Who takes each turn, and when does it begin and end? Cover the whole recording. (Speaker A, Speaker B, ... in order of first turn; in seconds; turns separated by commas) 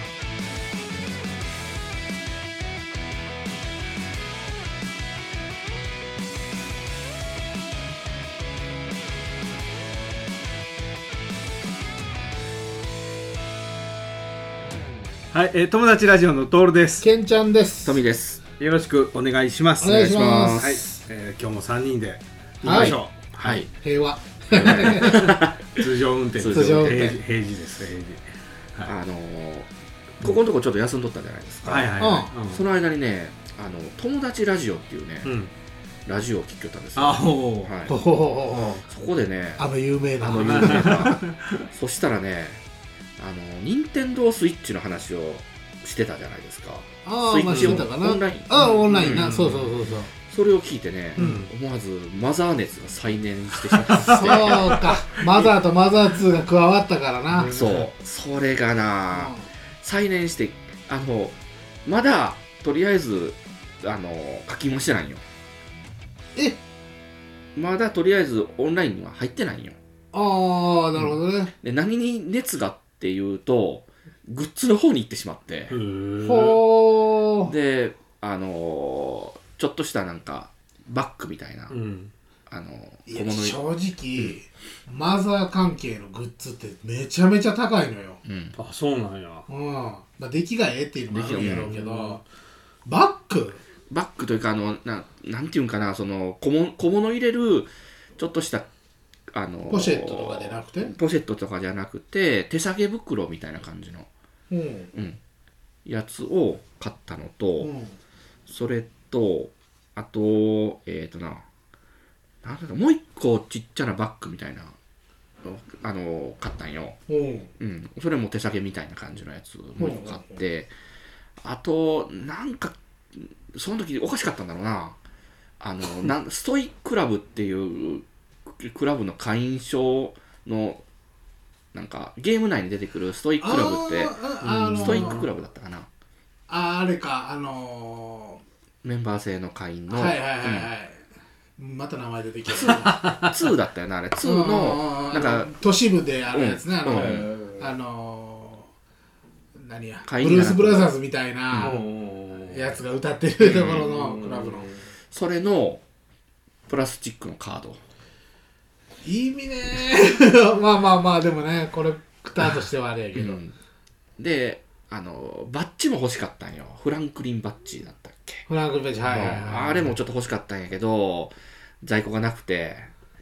Speaker A: 15.3-17.1, Speaker B: 17.0-18.0, Speaker C: 17.8-18.4, Speaker A: 18.6-23.7, Speaker B: 19.8-21.0, Speaker C: 19.9-20.8, Speaker B: 22.6-23.0, Speaker C: 22.6-23.7, Speaker B: 23.7-25.3, Speaker C: 24.5-27.2, Speaker A: 24.6-28.2, Speaker B: 26.4-27.2, Speaker C: 28.8-35.4, Speaker A: 31.6-32.6, Speaker B: 32.0-32.3, Speaker A: 35.2-35.5, Speaker C: 36.0-37.9, Speaker A: 37.0-37.7, Speaker B: 37.9-38.8, Speaker C: 38.7-42.6, Speaker B: 39.6-41.1, Speaker A: 40.4-41.6, Speaker C: 43.2-49.5, Speaker B: 47.0-50.1, Speaker A: 47.5-47.9, Speaker A: 48.6-49.8, Speaker C: 50.1-54.6, Speaker A: 51.2-51.5, Speaker A: 53.7-55.5, Speaker B: 54.0-57.5, Speaker A: 57.3-57.9, Speaker C: 57.5-65.2, Speaker B: 59.1-59.5, Speaker B: 66.3-66.6, Speaker C: 67.5-69.8, Speaker B: 70.1-71.5, Speaker C: 71.0-75.8, Speaker A: 75.7-76.7, Speaker B: 76.2-77.5, Speaker C: 77.4-81.8, Speaker A: 81.7-82.1, Speaker C: 82.5-83.6, Speaker B: 83.1-88.2, Speaker C: 88.2-88.6, Speaker A: 88.6-89.5, Speaker B: 89.5-92.2, Speaker C: 91.1-91.7, Speaker A: 91.3-92.2, Speaker B: 92.8-93.6, Speaker C: 93.9-98.7, Speaker C: 99.3-104.1, Speaker B: 99.7-100.9, Speaker B: 104.5-104.9, Speaker C: 104.9-105.2, Speaker C: 105.8-107.7, Speaker B: 107.6-108.0, Speaker C: 108.5-111.4, Speaker C: 112.4-114.7, Speaker C: 115.4-117.0, Speaker B: 117.1-117.5, Speaker C: 117.6-120.7, Speaker B: 119.8-120.4, Speaker C: 121.4-125.0, Speaker C: 125.6-130.8, Speaker C: 131.7-135.9, Speaker B: 133.4-135.2, Speaker A: 134.4-135.2, Speaker B: 136.5-138.4, Speaker C: 138.8-140.7, Speaker B: 139.9-141.0, Speaker B: 141.6-143.1, Speaker C: 142.5-145.6, Speaker B: 144.2-148.7, Speaker C: 146.3-147.2, Speaker A: 146.9-147.7, Speaker B: 149.5-151.8, Speaker C: 150.0-150.9, Speaker A: 151.6-152.8, Speaker B: 152.5-154.7, Speaker C: 153.4-153.9, Speaker A: 153.5-154.9, Speaker C: 155.1-155.8, Speaker C: 156.7-157.8, Speaker B: 159.0-163.4, Speaker C: 163.1-163.6, Speaker C: 164.2-168.5, Speaker B: 168.5-169.9, Speaker C: 169.1-172.9